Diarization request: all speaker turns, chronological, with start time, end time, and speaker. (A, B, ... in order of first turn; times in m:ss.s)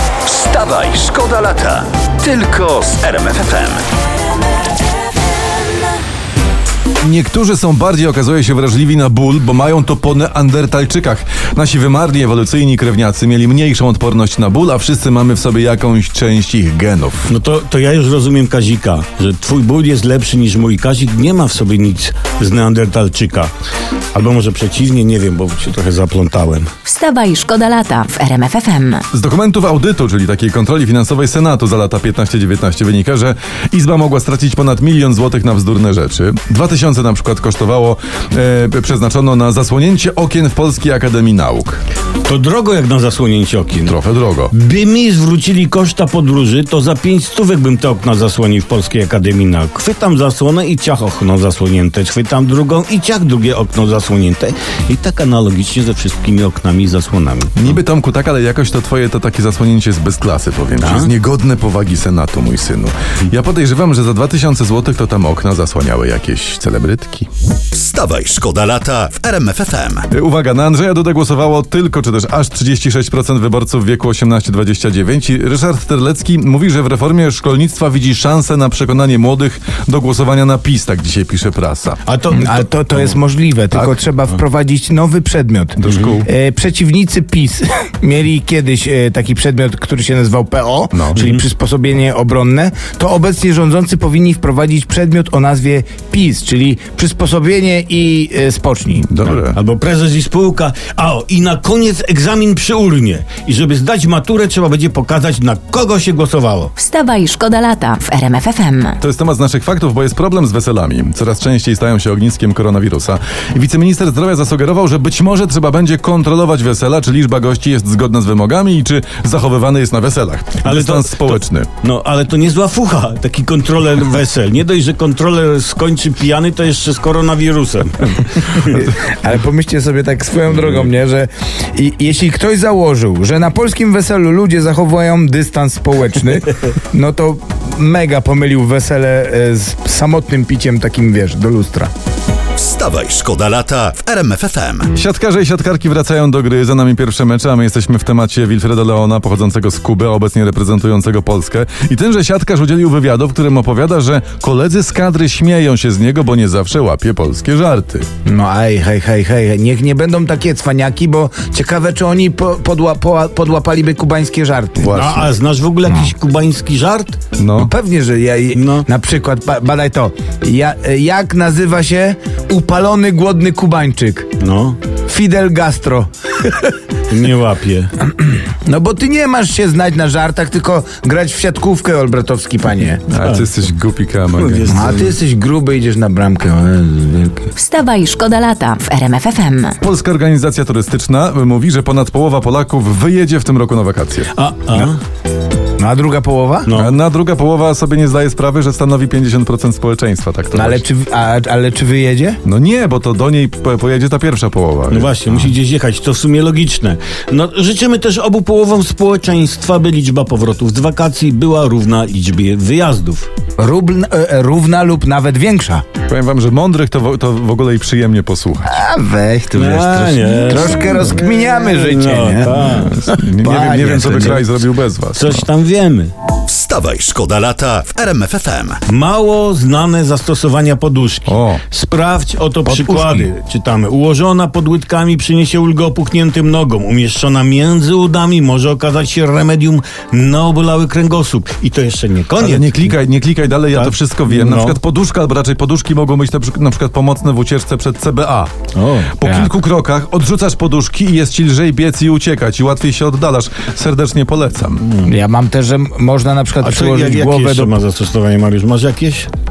0:00.3-0:03.8 A
0:07.0-0:17.3 B
0:17.3-0:23.5 C
0:24.1-0:26.7 C
0:26.8-0:29.0 D
0:29.1-0:41.8 B
0:42.2-0:44.0 C
0:43.8-0:44.5 B
0:44.5-0:57.8 C
0:57.6-1:07.3 B
1:00.8-1:01.1 C
1:07.7-1:10.1 A
1:10.1-1:22.0 B
1:22.1-1:23.2 C
1:22.3-1:39.1 E
1:23.7-1:24.0 B
1:25.8-1:26.3 B
1:25.8-1:26.1 C
1:30.9-1:31.2 B
1:39.0-1:39.6 B
1:39.3-1:46.7 C
1:46.8-1:49.0 D
1:49.0-2:01.7 B
2:00.6-2:08.9 C
2:08.8-2:21.9 E
2:22.6-2:24.9 A
2:24.9-2:38.1 B
2:38.3-2:45.0 E
2:44.8-2:45.3 B
2:44.9-2:47.2 C
2:47.4-2:47.7 B
2:47.6-2:54.3 E
2:48.5-2:48.9 C
2:54.4-2:54.8 C
2:55.1-2:56.7 E
2:57.1-2:57.9 C
2:58.1-3:03.1 E
3:03.1-3:04.9 B
3:03.2-3:03.5 C
3:04.4-3:05.2 C
3:04.7-3:07.5 E
3:07.6-3:09.8 D
3:09.8-3:14.8 B
3:14.3-3:15.0 C
3:15.8-3:16.7 E
3:16.7-3:17.0 C
3:16.7-3:20.8 B
3:20.5-3:22.4 E
3:22.4-3:25.1 B
3:24.9-3:33.3 C
3:33.6-3:35.8 E
3:36.1-3:38.8 B
3:38.7-3:44.4 E
3:39.5-3:43.1 C
3:42.8-3:45.5 B
3:43.7-3:44.4 C
3:45.1-3:46.1 C
3:46.5-3:48.8 A
3:48.9-4:02.9 C
3:51.3-3:51.6 B
3:52.7-3:53.3 E
4:02.4-4:08.5 B
4:03.7-4:04.8 C
4:08.8-4:09.2 C
4:09.1-4:14.8 B
4:09.2-4:09.5 E
4:14.8-4:15.1 C
4:15.1-4:17.7 E
4:16.6-4:19.3 C